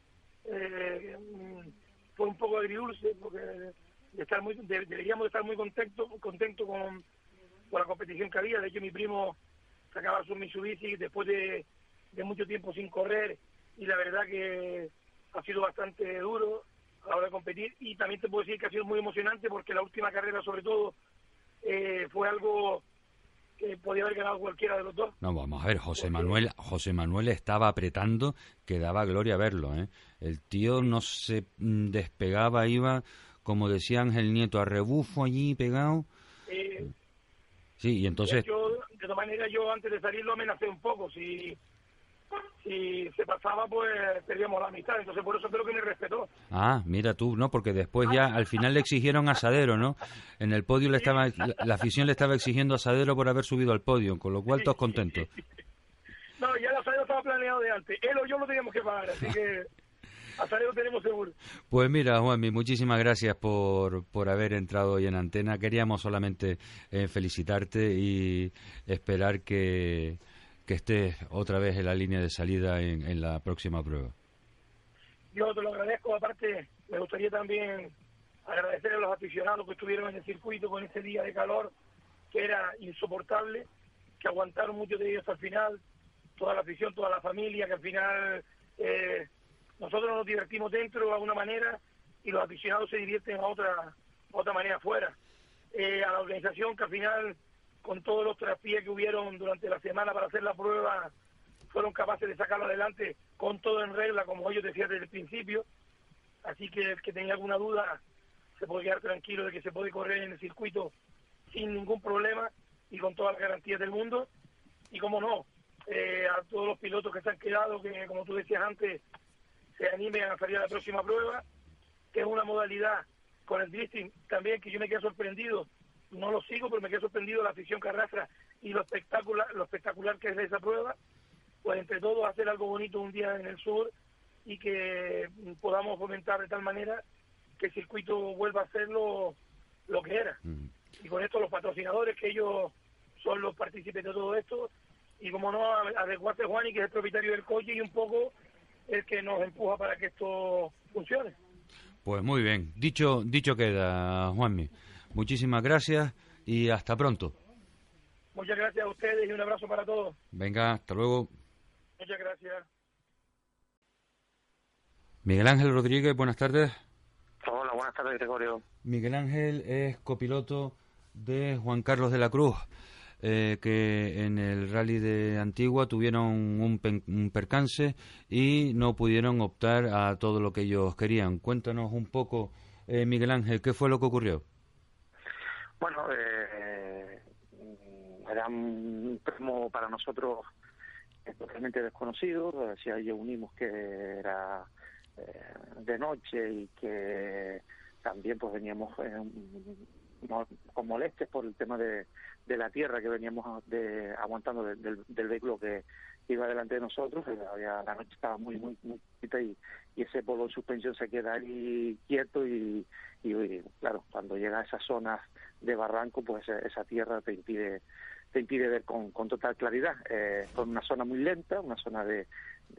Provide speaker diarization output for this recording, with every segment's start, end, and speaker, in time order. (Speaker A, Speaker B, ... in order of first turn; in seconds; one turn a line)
Speaker A: 0.4-7.0
Speaker A: 7.7-9.3
Speaker A: 9.9-20.9
Speaker A: 21.6-22.8
Speaker A: 23.6-25.1
Speaker B: 25.2-36.1
Speaker A: 26.0-26.4
Speaker A: 36.5-36.9
Speaker B: 37.8-38.5
Speaker A: 38.2-41.6
Speaker A: 42.6-46.3
Speaker B: 46.5-55.3
Speaker A: 56.4-59.7
Speaker A: 60.4-61.3
Speaker B: 61.7-74.1
Speaker A: 75.3-77.9
Speaker A: 78.5-81.7
Speaker A: 82.3-83.7
Speaker A: 84.2-85.8
Speaker A: 86.4-95.2
Speaker A: 95.7-101.1
Speaker A: 101.7-105.7
Speaker A: 106.4-108.0
Speaker A: 108.6-110.9
Speaker A: 111.5-114.3
Speaker A: 114.9-119.0
Speaker A: 119.8-121.4
Speaker A: 122.1-131.0
Speaker A: 131.6-133.9
Speaker A: 134.4-137.0
Speaker A: 137.6-139.3
Speaker A: 139.9-140.4
Speaker A: 141.0-148.3
Speaker A: 148.9-151.3
Speaker B: 152.0-157.3
Speaker A: 158.3-160.2
Speaker B: 160.3-161.3
Speaker A: 162.0-162.6
Speaker B: 165.2-166.8
Speaker C: 167.4-168.6
Speaker B: 168.8-172.6
Speaker B: 173.2-184.4
Speaker C: 185.8-187.2
Speaker C: 187.7-190.5
Speaker C: 191.2-194.7
Speaker C: 195.2-217.8
Speaker C: 218.3-222.3